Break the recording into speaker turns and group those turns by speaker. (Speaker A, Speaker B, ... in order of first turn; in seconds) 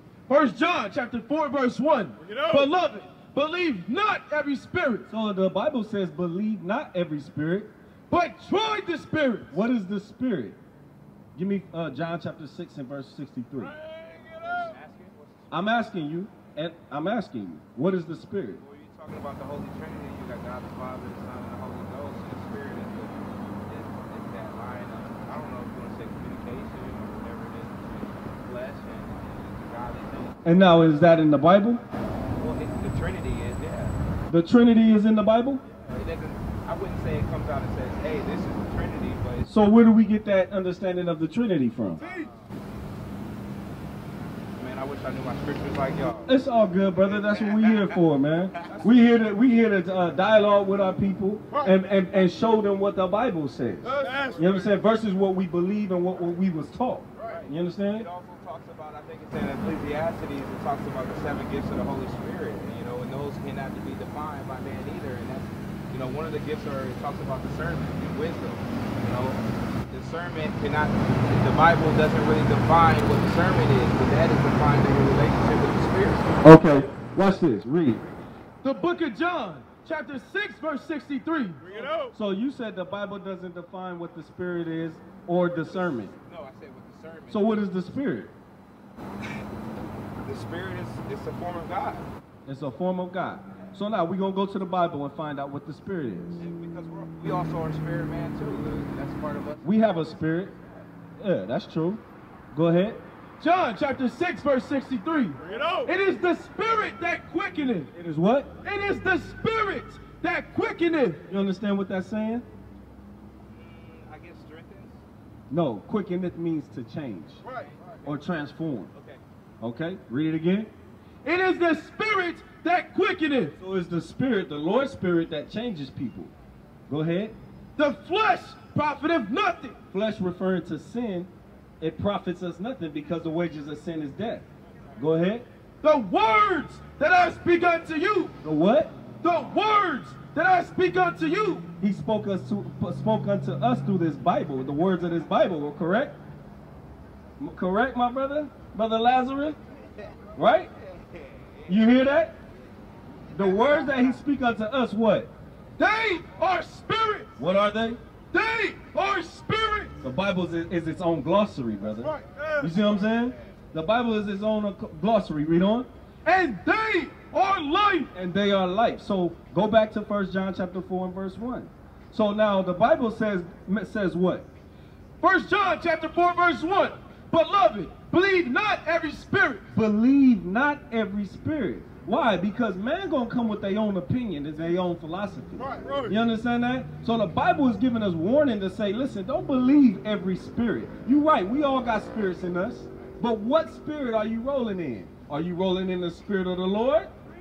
Speaker A: 0.3-5.1, 8.1-9.6, 78.6-81.6, 103.4-107.9, 108.6-111.2, 121.2-123.5, 127.8-129.8, 135.8-138.3, 139.2-141.7, 155.8-157.3, 158.3-159.9, 166.2-168.1, 175.2-179.7
Speaker B: 5.1-7.7, 9.5-10.6, 11.3-13.8, 15.5-18.6, 30.4-31.8, 34.3-35.6, 39.5-42.0, 46.3-58.1, 76.4-78.0, 82.1-86.1, 87.3-88.3, 92.5-96.4, 99.6-100.5, 101.2-103.0, 107.9-108.5, 111.3-112.5, 115.5-117.4, 118.1-118.9, 119.6-120.7, 123.6-126.3, 126.9-127.4, 129.9-131.3, 131.8-134.4, 135.0-135.5, 138.4-138.9, 141.8-146.2, 147.4-149.6, 150.4-150.7, 151.7-152.3, 153.3-155.3, 157.4-158.0, 160.0-165.9, 168.1-174.5, 179.7-197.1
Speaker C: 14.2-15.7, 18.6-30.6, 32.4-34.0, 35.7-39.5, 42.0-42.4, 44.5-46.3, 47.2-48.0, 48.6-48.9, 57.2-69.4, 69.9-76.3, 85.9-87.9, 90.2-92.1, 96.4-100.5, 113.5-115.0, 117.5-117.9, 118.9-119.2, 150.8-151.8